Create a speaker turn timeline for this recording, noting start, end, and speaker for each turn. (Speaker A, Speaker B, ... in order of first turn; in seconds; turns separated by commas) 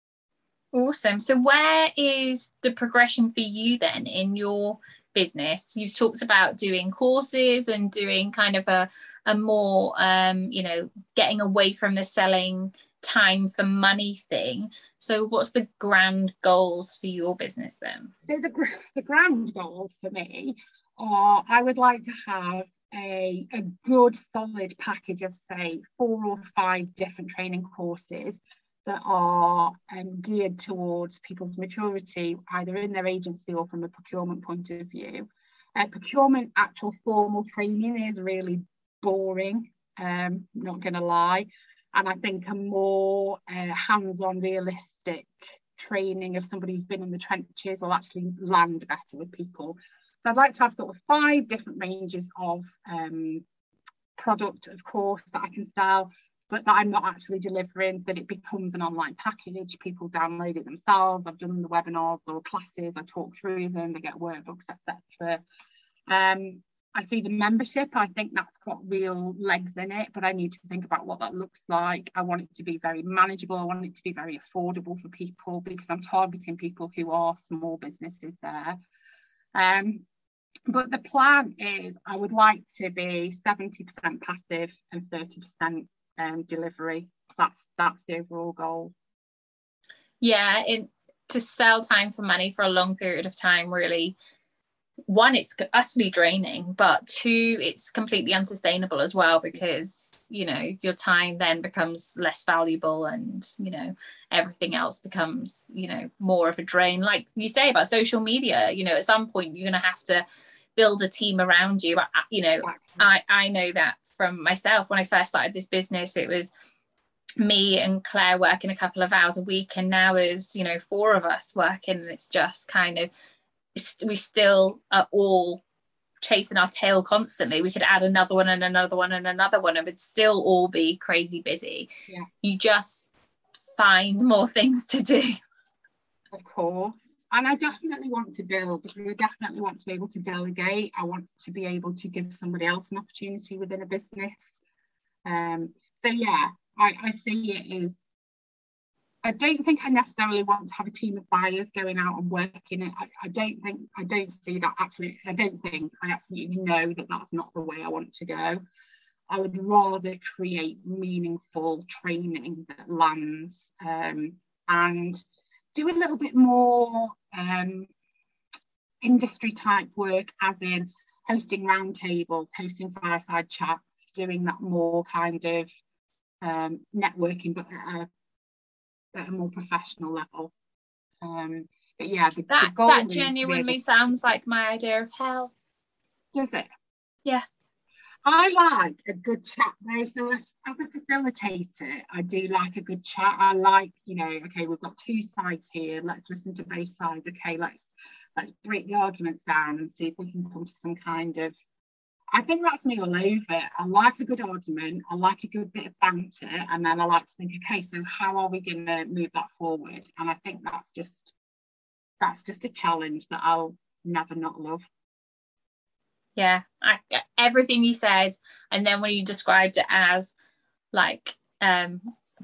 Speaker A: 0.7-18.1, Speaker B: 18.2-53.4, Speaker B: 54.1-65.4, Speaker B: 66.1-78.8, Speaker B: 79.5-80.0, Speaker B: 80.7-88.9, Speaker A: 90.2-94.2, Speaker A: 95.1-110.2, Speaker A: 110.8-116.5, Speaker B: 112.6-113.0, Speaker A: 117.4-123.1, Speaker A: 123.7-125.6, Speaker A: 126.2-131.9, Speaker A: 132.4-133.1, Speaker A: 133.8-135.4, Speaker B: 136.3-144.6, Speaker B: 145.2-148.0, Speaker B: 149.2-158.6, Speaker B: 159.3-165.2, Speaker B: 165.7-167.9, Speaker B: 169.0-175.7, Speaker B: 176.4-178.1, Speaker B: 179.1-180.5, Speaker B: 181.2-183.8, Speaker A: 182.5-185.5, Speaker B: 186.3-186.7, Speaker B: 188.2-201.5, Speaker B: 202.3-211.3, Speaker B: 212.2-214.8, Speaker A: 216.3-220.3, Speaker A: 220.9-222.0